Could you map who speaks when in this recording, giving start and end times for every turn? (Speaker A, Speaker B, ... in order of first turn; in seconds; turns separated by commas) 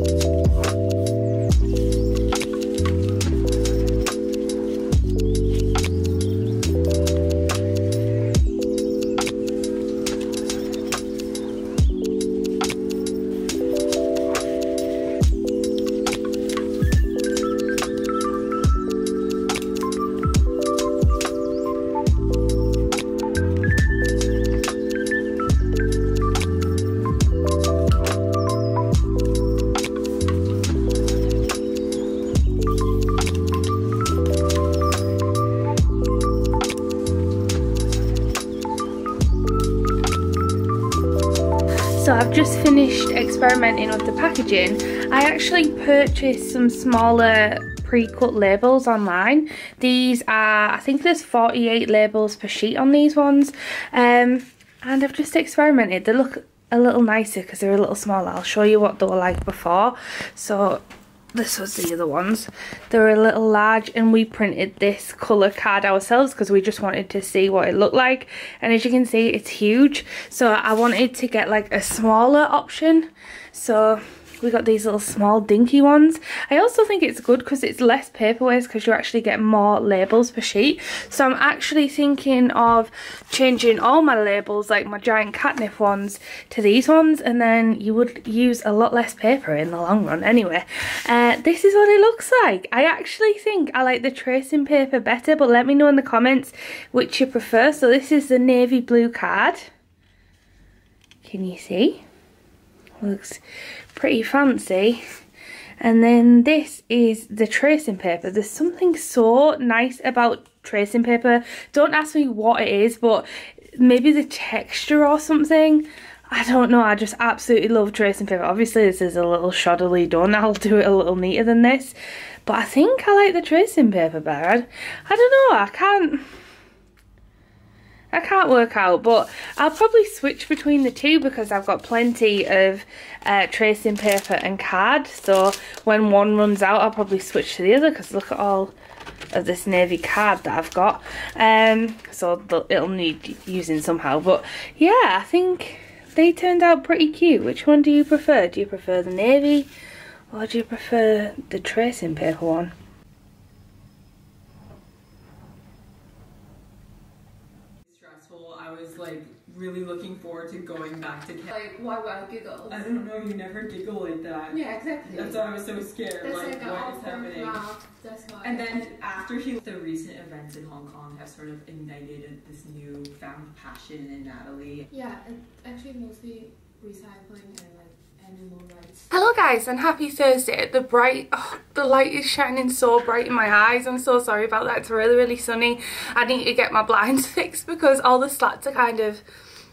Speaker A: 41.9-60.8, Speaker A: 61.3-99.7, Speaker A: 101.2-102.0, Speaker A: 103.0-103.4, Speaker A: 103.9-105.0, Speaker A: 105.8-126.2, Speaker A: 128.1-138.7, Speaker A: 139.3-149.7, Speaker A: 150.3-152.7, Speaker B: 157.9-161.5, Speaker C: 161.5-162.8, Speaker B: 162.7-167.6, Speaker C: 164.5-165.4, Speaker C: 166.2-169.3, Speaker B: 168.4-174.9, Speaker C: 174.9-179.0, Speaker A: 179.1-189.2